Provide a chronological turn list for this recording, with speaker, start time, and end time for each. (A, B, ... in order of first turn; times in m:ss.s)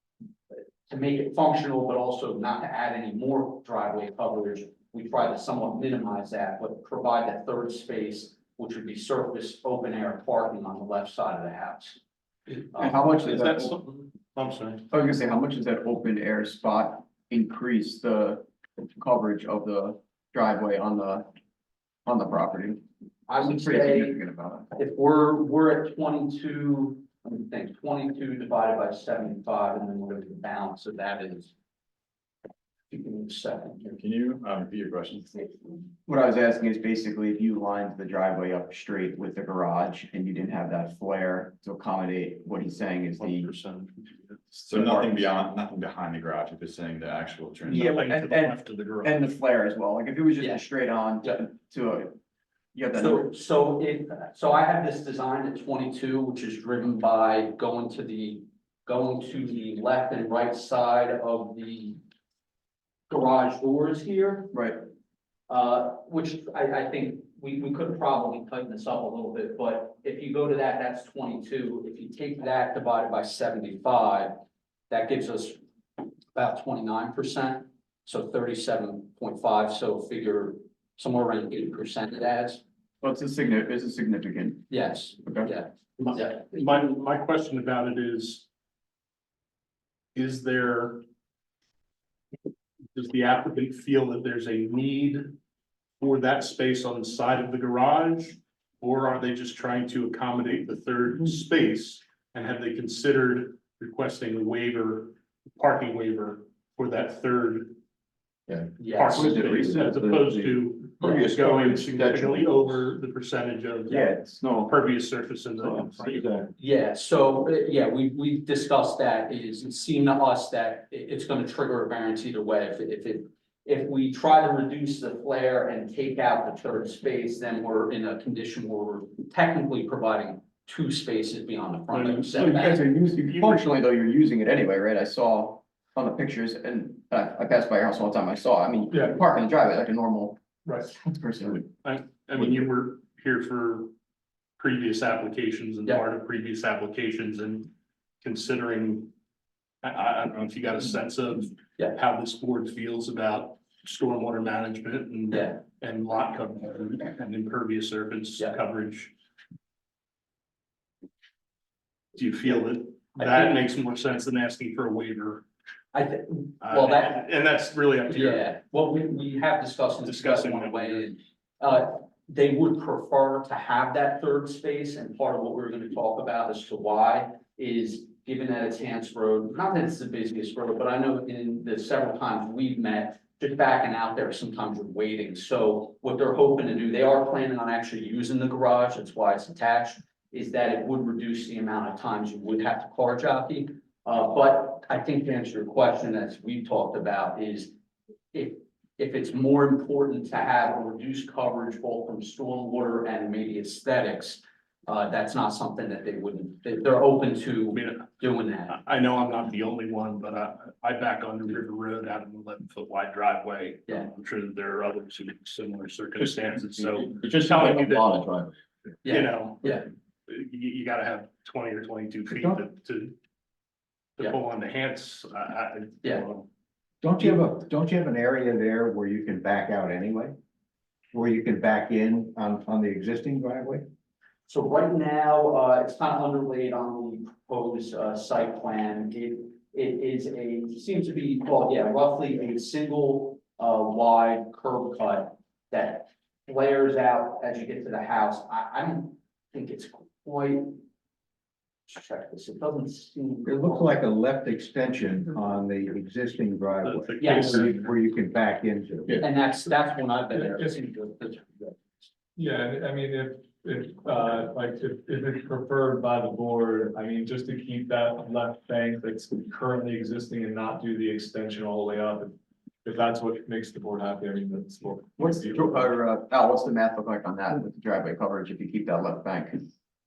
0:00.5-0:12.0 A
0:12.5-0:14.8 B
0:12.8-0:13.8 C
0:14.9-0:21.3 C
0:22.0-0:22.8 C
0:23.3-0:24.2 A
0:23.3-0:24.7 C
0:24.8-0:31.5 A
0:32.9-0:34.0 A
0:33.9-0:35.6 D
0:36.0-0:43.5 C
0:43.2-0:44.4 B
0:44.5-0:48.0 D
0:44.7-0:45.2 C
0:47.7-0:49.2 B
0:47.7-0:52.2 C
0:52.7-0:53.3 C
0:53.0-1:02.0 A
1:03.1-1:04.6 A
1:04.5-1:04.8 C
1:05.5-1:15.6 A
1:16.3-1:22.6 A
1:23.0-1:24.7 C
1:24.7-1:26.4 A
1:25.2-1:25.5 C
1:26.0-1:28.5 B
1:30.2-1:31.0 B
1:32.9-1:35.4 B
1:36.0-1:47.8 B
1:48.5-1:52.8 C
1:48.8-1:49.4 A
1:48.9-1:54.1 B
1:51.0-1:51.3 A
1:53.9-1:54.8 C
1:54.6-1:56.4 B
1:56.6-2:12.8 A
2:11.9-2:12.5 B
2:12.3-2:21.7 C
2:13.3-2:13.6 B
2:21.8-2:23.9 B
2:24.6-2:27.7 B
2:28.2-2:29.1 B
2:29.8-2:39.1 B
2:35.3-2:35.6 A
2:42.2-2:45.5 B
2:43.2-2:43.6 A
2:45.9-2:47.2 A
2:46.6-2:48.4 B
2:48.1-3:17.7 A
2:50.0-2:51.1 B
3:18.3-3:28.8 A
3:27.7-3:28.1 B
3:28.7-3:38.1 B
3:36.2-3:38.5 C
3:39.0-3:39.9 A
3:39.1-3:43.2 B
3:44.2-3:46.5 B
3:47.0-3:50.3 E
3:51.1-3:53.8 E
3:54.5-4:10.8 A
4:11.9-4:14.0 A
4:13.4-4:19.2 E
4:16.8-4:17.9 B
4:17.2-4:17.7 A
4:19.2-4:22.1 A
4:20.4-4:20.8 F
4:22.4-4:35.9 F
4:35.2-4:39.7 C